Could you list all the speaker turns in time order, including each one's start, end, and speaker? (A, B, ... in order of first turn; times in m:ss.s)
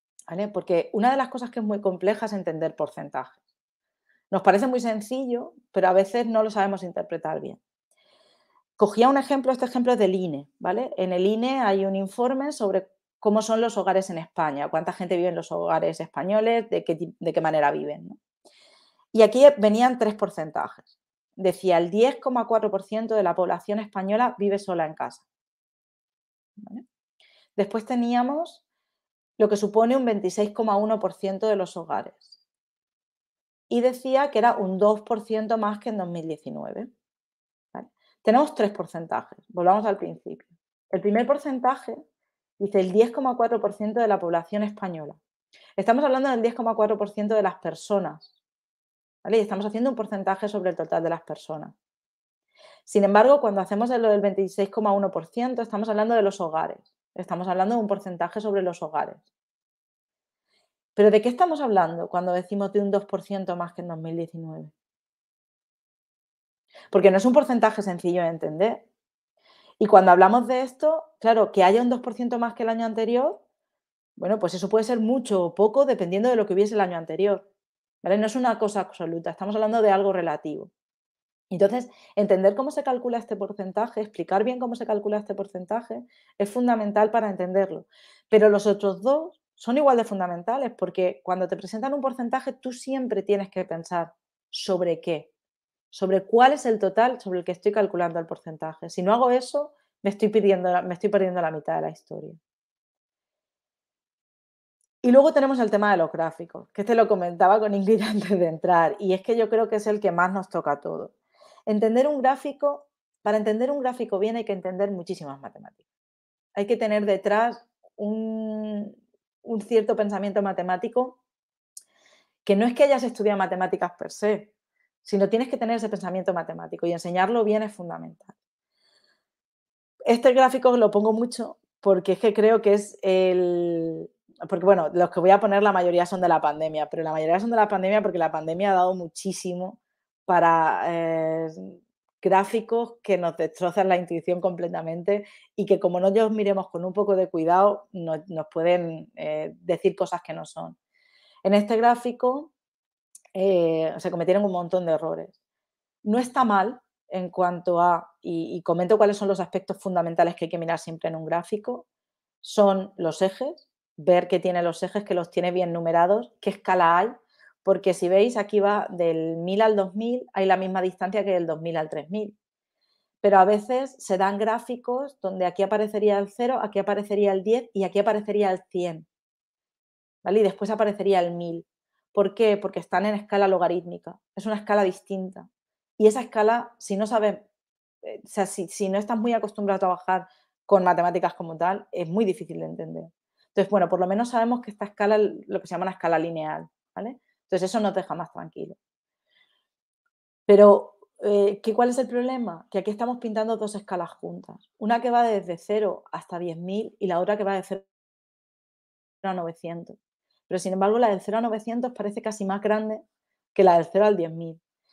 0:00.3-0:03.4 A
0:04.3-0:07.6 A
0:08.8-0:18.2 A
0:19.1-0:25.2 A
0:26.6-0:26.8 A
0:27.6-0:28.6 A
0:29.4-0:32.3 A
0:33.7-0:36.9 A
0:37.7-0:42.0 A
0:42.6-0:45.2 A
0:45.8-0:48.3 A
0:49.2-0:51.8 A
0:52.9-0:59.2 A
1:01.0-1:04.7 A
1:06.9-1:08.8 A
1:09.8-1:13.4 A
1:14.2-1:17.4 A
1:18.0-1:20.7 A
1:21.5-1:35.3 A
1:35.9-1:42.4 A
1:45.0-1:51.1 A
1:51.7-1:55.8 A
1:56.6-2:01.2 A
2:02.4-2:04.5 A
2:05.0-2:08.3 A
2:10.1-2:30.8 A
2:31.4-2:32.5 A
2:33.4-2:35.4 A
2:36.0-2:41.8 A
2:42.4-2:52.3 A
2:53.2-2:59.1 A
3:00.2-3:05.5 A
3:06.0-3:07.5 A
3:08.0-3:18.8 A
3:20.5-3:27.9 A
3:29.2-3:30.0 A
3:30.5-3:33.0 A
3:33.6-3:34.6 A